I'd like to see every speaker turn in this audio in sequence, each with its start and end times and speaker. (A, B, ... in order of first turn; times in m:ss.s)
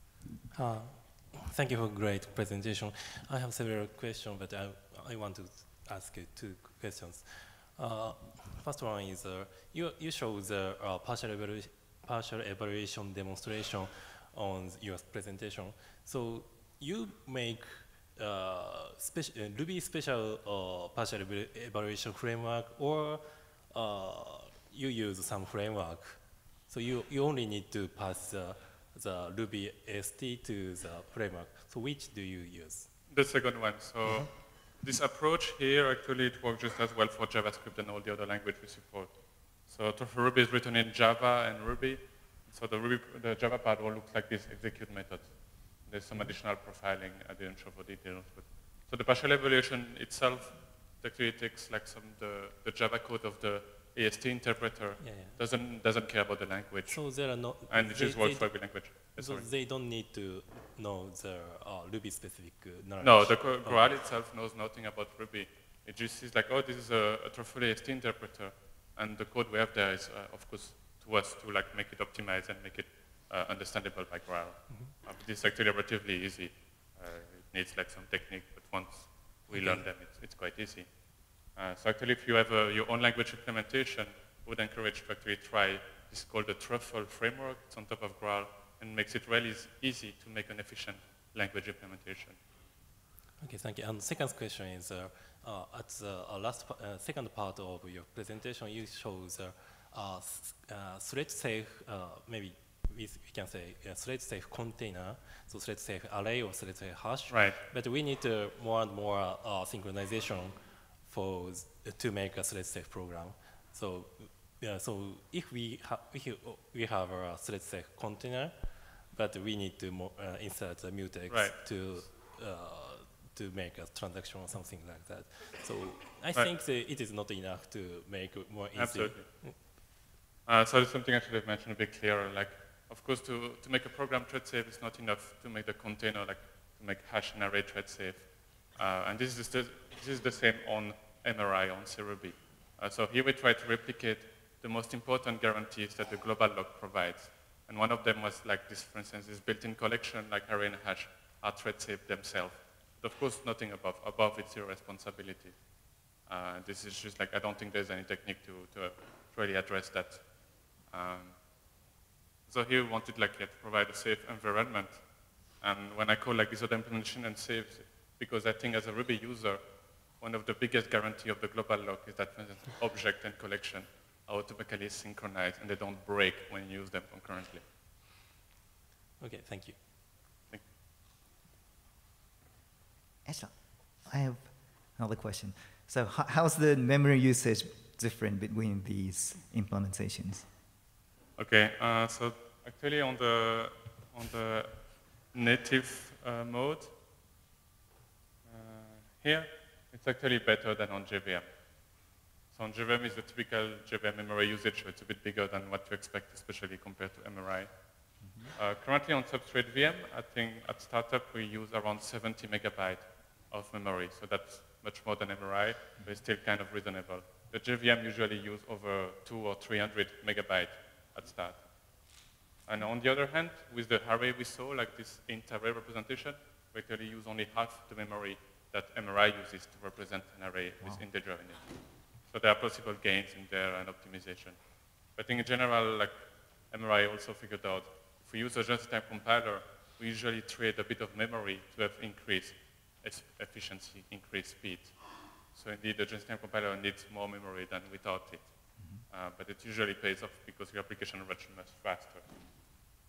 0:00.5-0:33.0 A
0:33.1-0:59.4 B
0:55.0-0:55.4 A
0:56.9-1:03.9 A
1:03.0-1:20.9 B
1:19.5-1:19.8 A
1:21.5-1:32.4 B
1:33.4-2:09.6 A
1:47.3-1:47.6 B
2:01.3-2:02.0 B
2:08.7-2:09.8 B
2:10.4-2:35.6 B
2:36.2-2:40.3 B
2:40.9-2:41.4 B
2:42.5-2:45.0 B
2:45.6-2:49.6 B
2:50.2-2:57.6 B
2:59.2-2:59.8 A
3:03.2-3:10.5 C
3:11.4-3:16.9 B
3:18.4-3:21.5 B
3:22.5-3:27.7 B
3:28.2-3:28.5 C
3:28.5-3:41.7 B
3:42.6-3:51.7 B
3:52.3-3:54.6 B
3:55.1-4:05.0 B
4:05.5-4:12.4 B